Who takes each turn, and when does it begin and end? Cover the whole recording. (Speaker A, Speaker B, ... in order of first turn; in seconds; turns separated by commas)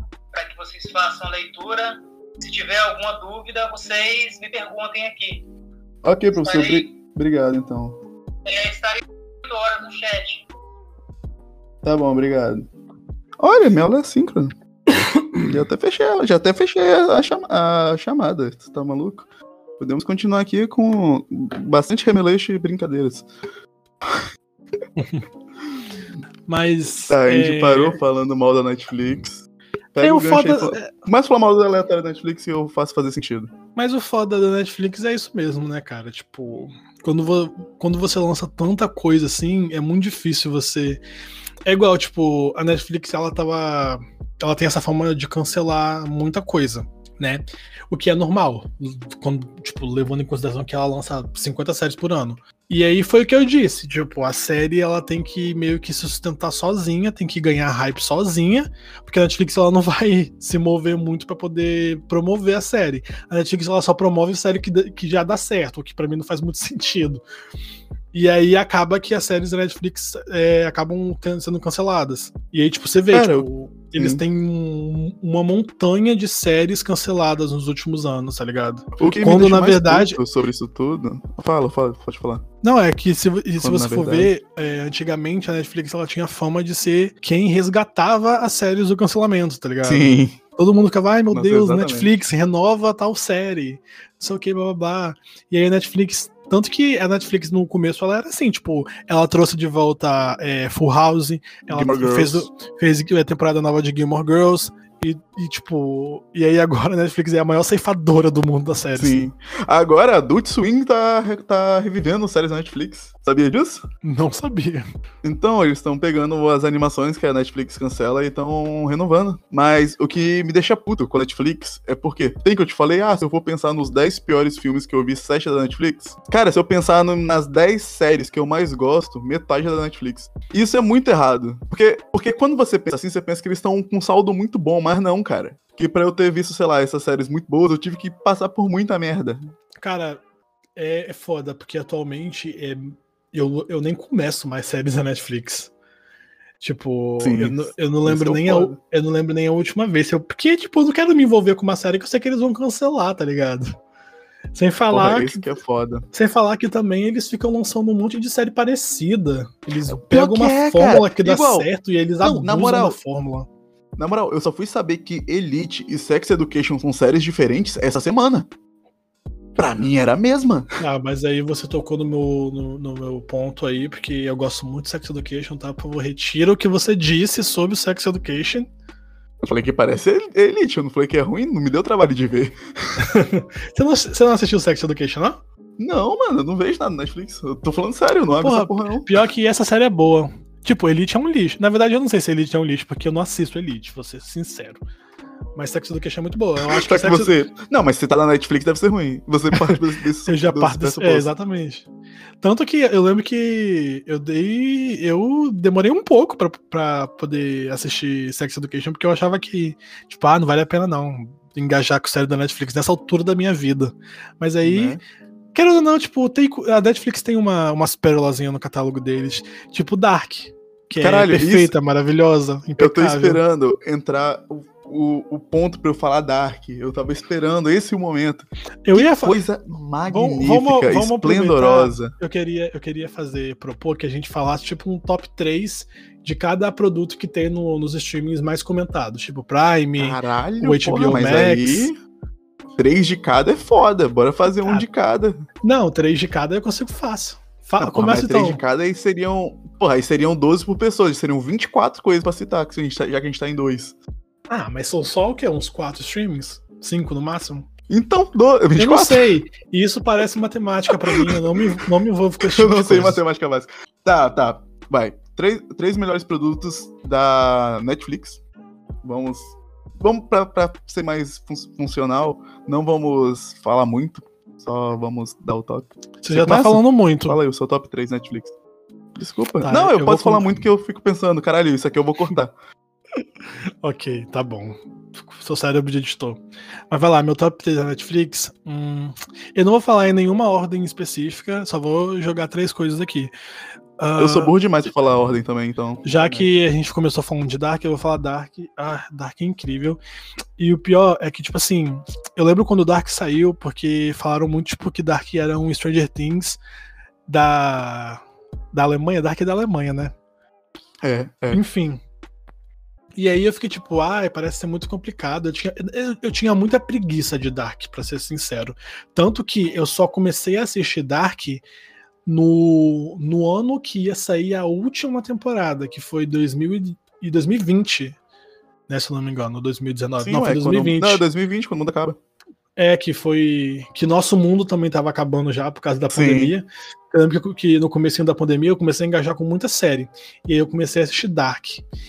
Speaker A: 0.3-5.5, Speaker B: 6.0-8.0, Speaker A: 6.3-7.0, Speaker A: 8.4-10.5, Speaker B: 11.8-12.7, Speaker B: 13.4-14.5, Speaker B: 15.4-19.3, Speaker B: 19.8-23.3, Speaker C: 25.0-25.2, Speaker C: 26.5-28.0, Speaker B: 27.1-33.5, Speaker C: 30.0-30.9, Speaker C: 33.8-41.0, Speaker C: 41.7-67.2, Speaker C: 68.1-80.2, Speaker B: 73.1-74.2, Speaker B: 79.0-82.4, Speaker C: 82.6-109.2, Speaker B: 83.6-84.3, Speaker B: 89.8-90.4, Speaker B: 91.3-92.1, Speaker B: 101.7-102.5, Speaker B: 109.0-113.8, Speaker C: 114.0-114.9, Speaker B: 115.2-139.4, Speaker C: 139.8-140.2, Speaker C: 140.8-145.7, Speaker C: 146.6-153.8, Speaker B: 147.2-148.8, Speaker C: 154.5-155.4, Speaker B: 154.9-156.1, Speaker C: 156.1-163.5, Speaker B: 159.9-161.7, Speaker B: 162.2-163.0, Speaker B: 164.0-168.5, Speaker B: 169.6-170.7, Speaker C: 170.8-178.7, Speaker B: 179.4-183.0, Speaker C: 183.0-185.4, Speaker B: 185.8-189.1, Speaker C: 188.4-194.8, Speaker C: 195.6-197.3, Speaker B: 196.6-201.3, Speaker C: 199.6-201.9, Speaker C: 202.4-215.0, Speaker B: 214.6-215.0, Speaker C: 215.5-223.4, Speaker B: 221.0-221.7, Speaker B: 222.8-232.1, Speaker C: 228.8-229.4, Speaker C: 230.1-241.9, Speaker B: 240.0-242.0, Speaker B: 242.8-245.4, Speaker C: 245.6-248.6, Speaker B: 247.8-254.0, Speaker C: 254.5-257.7, Speaker B: 257.9-259.3, Speaker C: 258.8-263.2, Speaker B: 260.9-261.4, Speaker B: 262.4-268.4, Speaker B: 269.0-278.5, Speaker C: 276.2-277.4, Speaker B: 279.2-282.5, Speaker C: 279.6-280.6, Speaker C: 283.8-293.3, Speaker C: 294.0-294.5, Speaker B: 294.2-296.5, Speaker C: 296.0-300.0, Speaker C: 300.6-306.6, Speaker C: 307.3-310.1, Speaker B: 311.0-311.6, Speaker C: 311.5-312.0, Speaker C: 313.2-321.6, Speaker C: 322.3-328.2, Speaker C: 328.9-331.2, Speaker B: 330.2-332.2, Speaker C: 332.8-341.8, Speaker B: 336.1-336.5